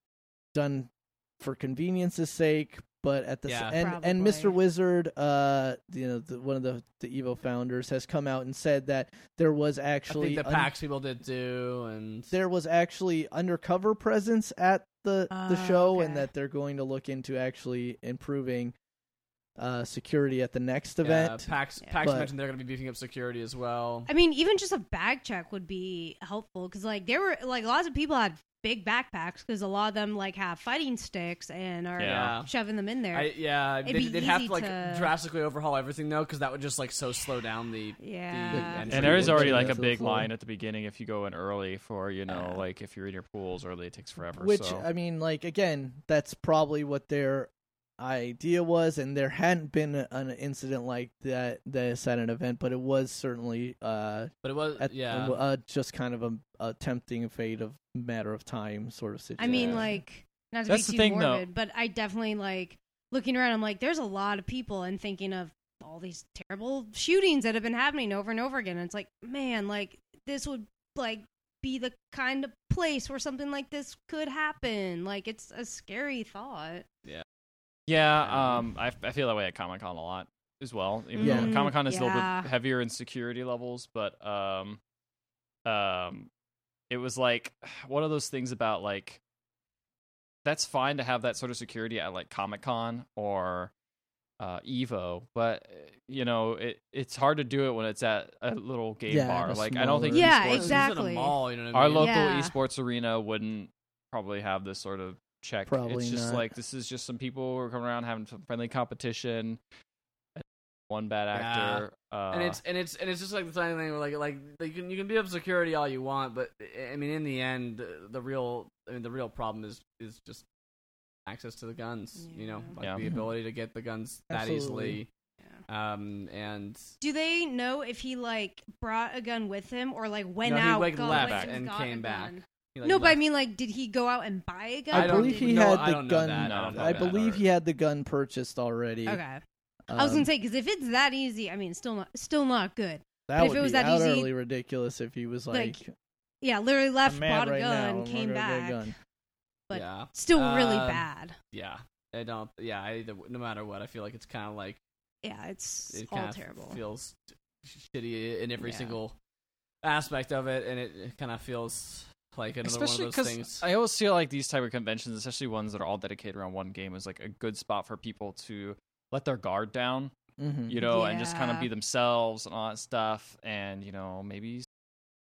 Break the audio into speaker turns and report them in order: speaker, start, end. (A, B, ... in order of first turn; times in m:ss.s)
0:00.5-0:10.7 A
0:03.5-0:03.8 B
0:03.7-0:04.6 C
0:10.1-0:12.3 B
0:12.3-0:18.8 A
0:15.3-0:16.3 C
0:19.6-0:21.5 A
0:21.0-0:24.1 B
0:22.0-0:22.3 A
0:24.1-0:33.3 C
0:32.0-0:32.4 D
0:32.0-0:32.5 B
0:33.1-0:39.9 B
0:33.8-0:35.1 C
0:38.0-0:39.2 C
0:38.5-0:40.3 A
0:38.9-0:44.8 D
0:42.3-0:42.6 C
0:44.4-1:00.0 A
0:54.4-0:55.4 B
0:59.4-1:16.9 C
0:59.4-0:59.8 B
1:00.7-1:01.4 D
1:17.9-1:24.8 D
1:18.2-1:18.6 B
1:21.2-1:22.5 C
1:21.2-1:21.6 A
1:25.6-1:26.3 D
1:26.9-1:29.2 D
1:30.4-1:33.7 D
1:34.4-1:40.6 D
1:39.1-1:40.8 A
1:40.1-1:41.4 C
1:40.5-1:42.3 B
1:41.7-1:49.6 D
1:42.0-1:42.6 C
1:45.7-1:46.5 A
1:50.4-1:52.6 D
1:51.3-2:00.4 B
2:01.3-2:05.1 B
2:02.2-2:02.7 C
2:02.8-2:03.0 D
2:03.0-2:03.3 A
2:04.3-2:05.0 A
2:05.7-2:06.9 B
2:07.0-2:15.6 C
2:10.4-2:13.2 B
2:11.1-2:11.5 D
2:14.9-2:19.2 A
2:14.9-2:17.4 B
2:16.4-2:17.4 D
2:19.1-2:19.4 C
2:19.9-2:20.3 A
2:19.9-2:24.3 C
2:23.3-2:25.9 A
2:25.5-2:25.8 C
2:26.4-2:28.9 C
2:27.0-2:28.9 A
2:29.7-2:31.4 C
2:29.7-2:34.8 B
2:35.2-2:36.8 C
2:35.9-2:39.2 B
2:38.6-2:39.0 C
2:39.8-2:43.6 B
2:42.6-2:50.1 D
2:50.4-2:50.8 A
2:50.7-2:54.7 D
2:50.9-2:51.7 C